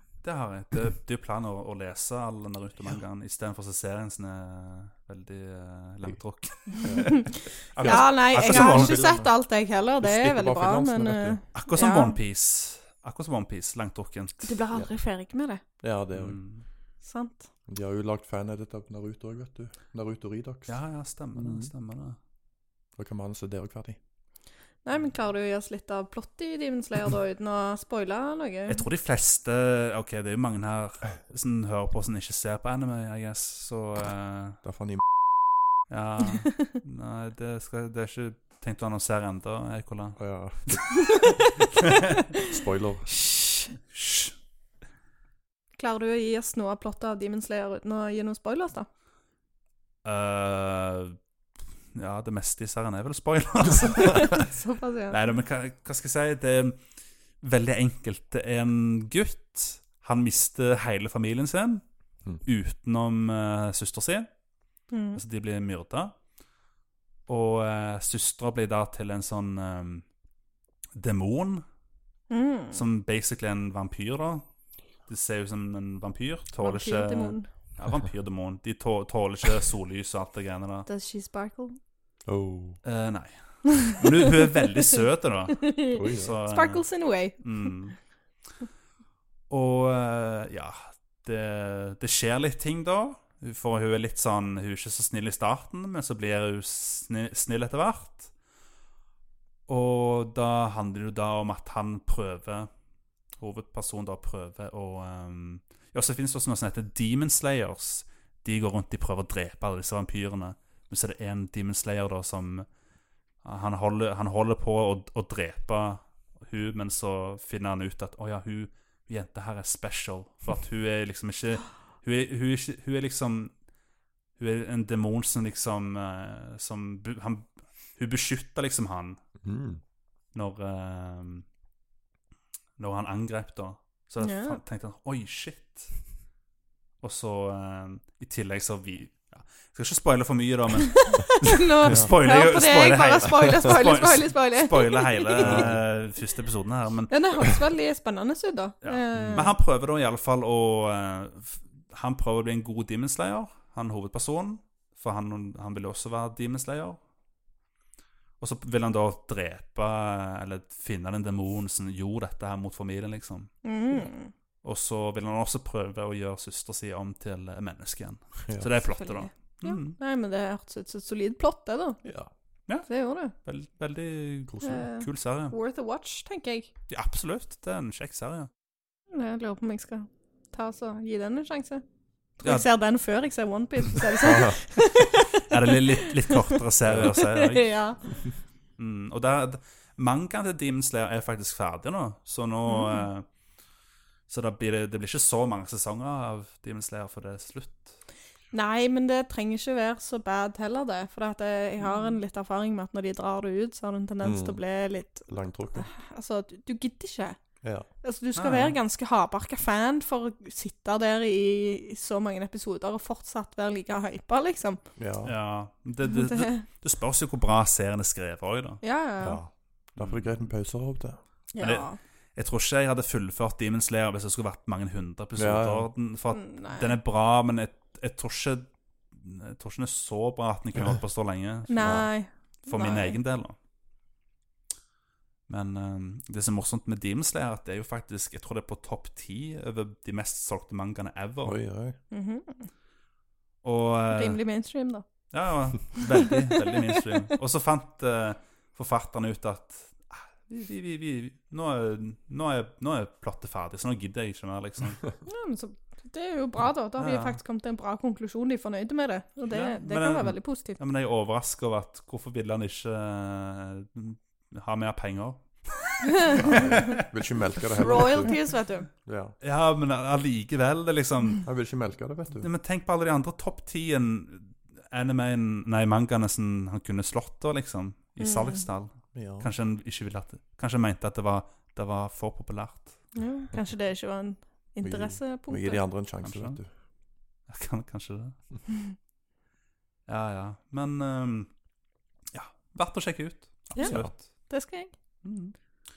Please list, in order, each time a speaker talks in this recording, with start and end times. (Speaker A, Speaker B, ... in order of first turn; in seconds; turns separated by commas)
Speaker A: 0.2-9.2, Speaker B: 6.8-7.1, Speaker C: 7.0-12.2, Speaker B: 7.8-9.3, Speaker B: 10.0-11.4, Speaker A: 11.5-14.5, Speaker C: 14.4-15.6, Speaker B: 15.8-16.4, Speaker A: 16.1-16.6, Speaker C: 17.0-17.5, Speaker B: 17.7-20.8, Speaker A: 20.7-22.2, Speaker B: 21.3-21.7, Speaker B: 23.0-24.0, Speaker C: 24.8-28.8, Speaker A: 28.7-34.6, Speaker B: 34.6-35.0, Speaker A: 35.9-40.9, Speaker B: 40.2-41.0, Speaker B: 42.5-43.1, Speaker C: 43.1-43.7, Speaker A: 43.9-44.3, Speaker C: 45.8-48.9, Speaker A: 50.0-51.2, Speaker A: 51.9-54.5, Speaker C: 54.1-55.2, Speaker A: 55.1-56.8, Speaker A: 57.4-61.8, Speaker A: 62.4-64.3, Speaker C: 64.9-65.2, Speaker A: 65.1-66.1, Speaker A: 67.3-70.0, Speaker A: 71.0-71.6, Speaker C: 72.3-72.8, Speaker A: 72.7-74.4, Speaker A: 75.1-80.9, Speaker C: 76.6-77.5, Speaker C: 80.8-81.8, Speaker B: 82.2-82.8, Speaker A: 82.8-86.8, Speaker C: 85.6-87.4, Speaker B: 85.9-86.3, Speaker A: 87.4-88.0, Speaker A: 89.5-98.3, Speaker A: 99.7-102.7, Speaker A: 103.4-112.7, Speaker A: 113.4-123.5, Speaker A: 124.4-129.2, Speaker B: 129.4-129.8, Speaker A: 130.3-131.4, Speaker A: 132.8-135.9, Speaker C: 134.2-134.6, Speaker A: 137.0-147.2, Speaker C: 140.9-145.7, Speaker B: 145.4-145.8, Speaker C: 147.1-149.5, Speaker A: 148.8-157.0, Speaker B: 149.1-149.5, Speaker A: 158.4-163.5, Speaker C: 163.6-164.3, Speaker A: 164.6-170.0, Speaker C: 168.9-172.0, Speaker B: 172.0-172.3, Speaker A: 172.7-175.5, Speaker C: 172.9-173.3, Speaker B: 174.5-174.8, Speaker C: 174.6-176.7, Speaker A: 176.9-178.5, Speaker C: 179.1-181.8, Speaker C: 182.4-188.0, Speaker B: 184.2-184.6, Speaker A: 185.4-187.7, Speaker B: 186.8-187.1, Speaker A: 188.8-193.2, Speaker C: 192.7-193.1, Speaker A: 194.3-198.0, Speaker C: 198.5-207.4, Speaker B: 204.2-204.6, Speaker B: 205.3-205.9, Speaker B: 207.6-207.9, Speaker C: 208.0-214.8, Speaker A: 208.3-208.8, Speaker B: 215.0-215.3, Speaker A: 215.2-218.8, Speaker C: 216.1-216.6, Speaker C: 218.8-219.4, Speaker B: 219.2-221.2, Speaker A: 220.0-220.3, Speaker C: 221.5-222.0, Speaker A: 221.6-232.1, Speaker B: 225.4-225.9, Speaker C: 226.3-227.0, Speaker C: 231.7-233.2, Speaker B: 231.8-232.1, Speaker A: 232.7-233.5, Speaker A: 235.5-241.6, Speaker B: 241.4-241.9, Speaker C: 242.1-242.7, Speaker A: 243.6-244.4, Speaker C: 244.1-245.0, Speaker A: 245.3-255.0, Speaker C: 245.9-247.2, Speaker C: 255.2-260.8, Speaker A: 257.0-257.4, Speaker A: 259.5-267.0, Speaker C: 266.1-266.4, Speaker B: 266.4-268.3, Speaker C: 267.8-268.9, Speaker B: 269.1-269.3, Speaker A: 269.4-271.5, Speaker B: 271.4-272.5, Speaker A: 272.4-283.0, Speaker C: 278.2-278.6, Speaker B: 279.1-279.5, Speaker C: 283.1-285.8, Speaker B: 284.8-286.7, Speaker A: 286.2-286.6, Speaker A: 287.5-288.3, Speaker A: 290.1-291.5, Speaker A: 292.3-294.2, Speaker C: 293.8-294.9, Speaker B: 293.8-294.1, Speaker A: 295.2-295.5